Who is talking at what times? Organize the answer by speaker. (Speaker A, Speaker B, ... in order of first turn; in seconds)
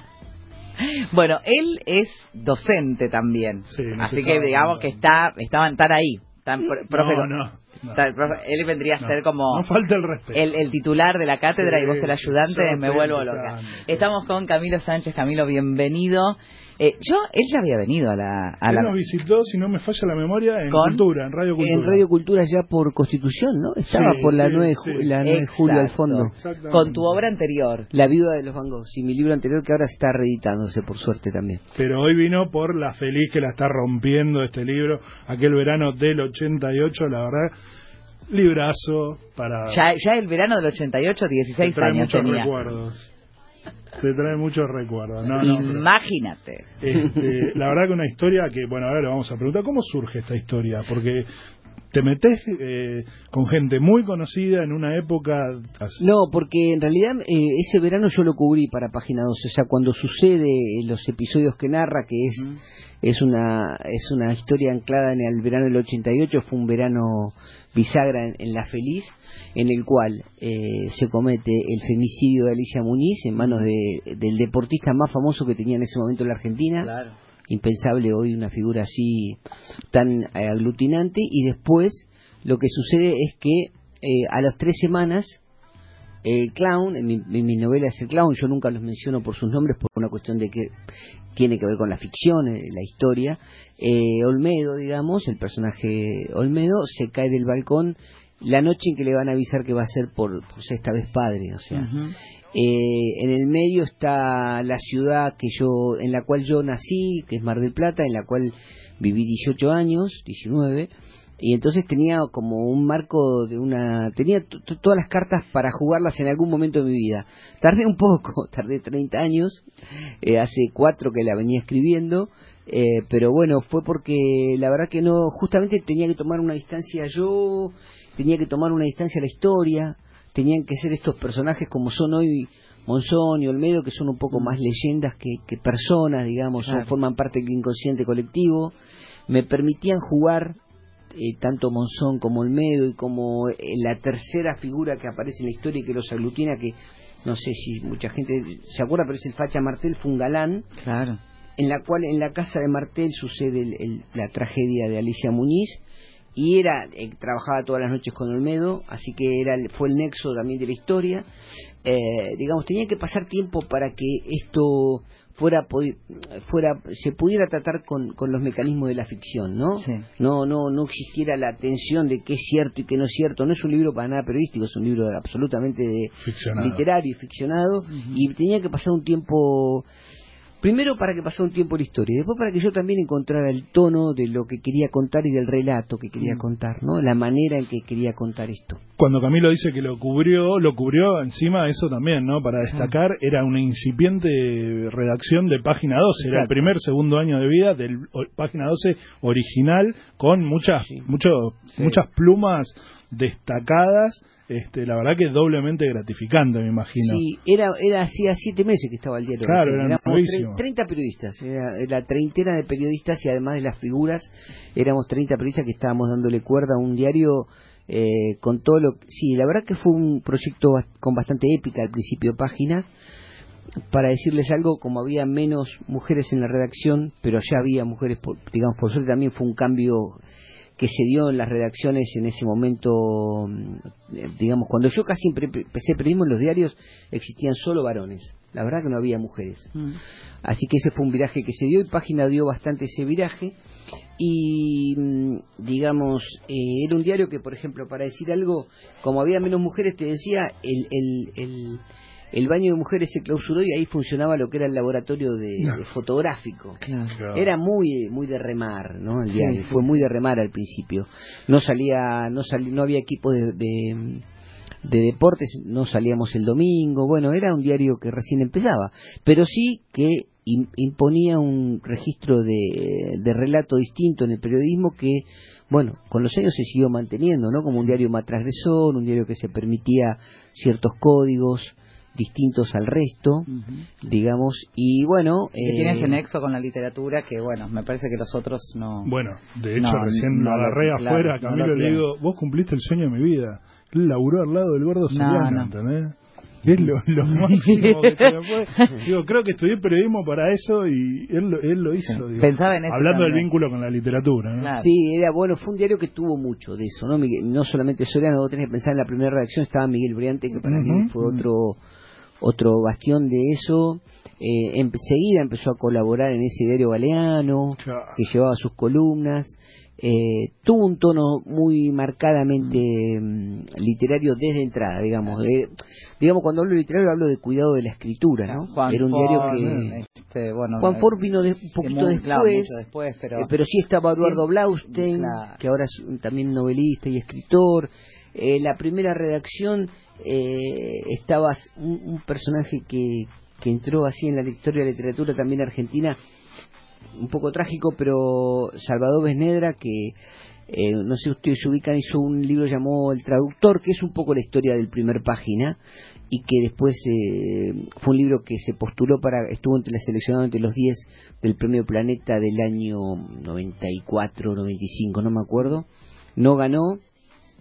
Speaker A: 0.8-7.3, 7.9-9.6, 10.3-18.9, 20.7-21.0, 25.2-27.9, 39.7-42.5, 45.4-46.6, 73.4-73.7, 76.8-77.1, 101.7-102.1, 136.6-136.9, 150.8-151.2, 169.8-170.1, 177.9-178.2, 192.6-192.9, 196.2-196.5, 201.7-202.0, 256.8-257.2, 259.3-260.0, 283.5-283.9, 285.6-289.1, 289.8-292.0, 295.1-295.7, 297.3-298.9, 302.0-303.5, 304.6-304.9, 328.5-331.1, 331.8-333.5, 334.2-335.6
Speaker B: 3.7-5.0, 6.9-8.4, 9.0-10.5, 11.5-14.1, 18.7-22.0, 23.9-25.1, 26.3-27.2, 31.8-37.5, 38.3-39.8, 41.6-43.0, 44.0-45.8, 46.8-51.3, 51.9-56.0, 176.2-176.8, 189.0-207.2, 209.4-210.6, 257.1-257.5, 289.0-304.7, 310.6-311.1, 317.8-318.2, 329.3-329.9
Speaker C: 21.6-26.3, 27.9-31.6, 56.0-62.5, 63.0-76.9, 77.5-79.4, 79.9-85.4, 86.2-90.7, 91.3-101.9, 102.5-119.7, 120.2-138.7, 139.3-140.6, 141.1-150.7, 151.6-155.8, 156.3-161.2, 161.8-179.8, 180.6-188.8, 206.9-222.9, 223.9-230.2, 230.8-239.7, 240.4-243.6, 244.2-251.8, 252.3-256.8, 257.3-264.2, 264.8-283.5, 284.0-286.2, 304.7-311.8, 312.4-329.9, 330.8-332.8, 333.4-346.2, 347.1-350.1, 350.7-355.8, 356.3-367.0